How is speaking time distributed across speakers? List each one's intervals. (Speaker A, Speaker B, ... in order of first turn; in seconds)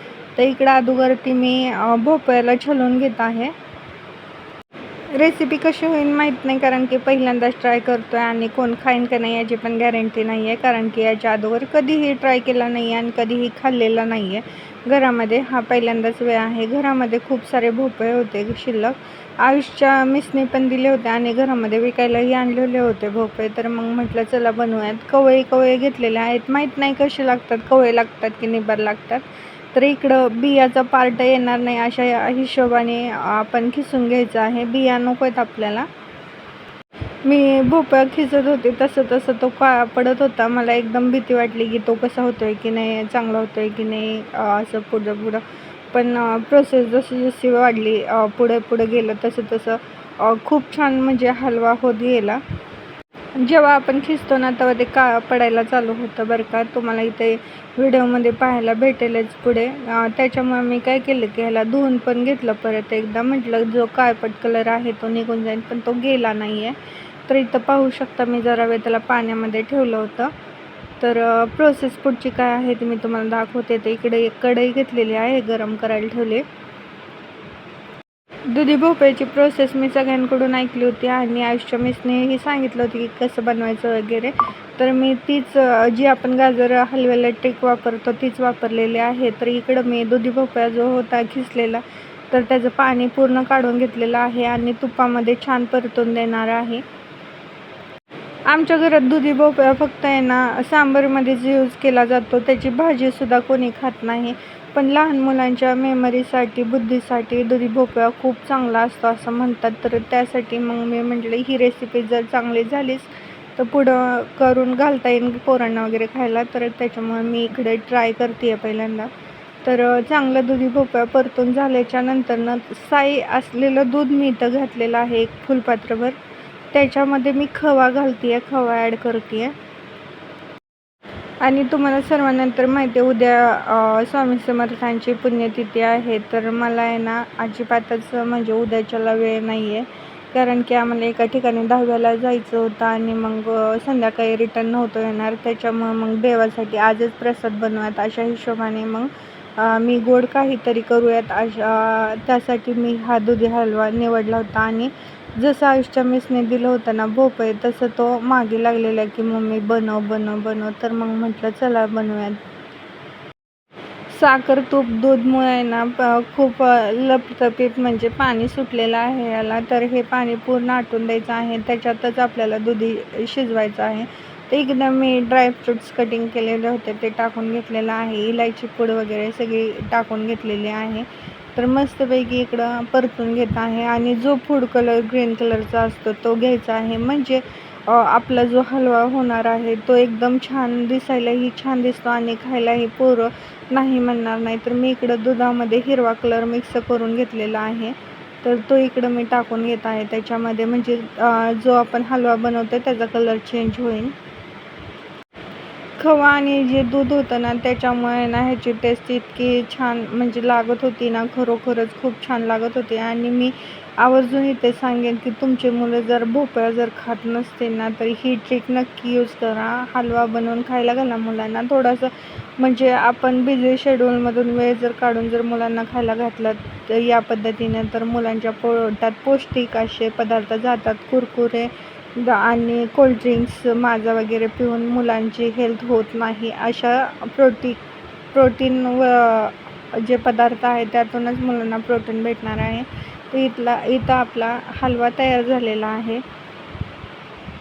Speaker A: 0.3-3.5, 5.1-35.9, 37.2-52.4, 53.4-70.3, 71.0-76.5, 78.5-96.8, 98.5-119.1, 119.6-126.2, 126.7-129.6, 131.4-162.4, 164.1-204.2, 206.0-237.8, 238.3-246.2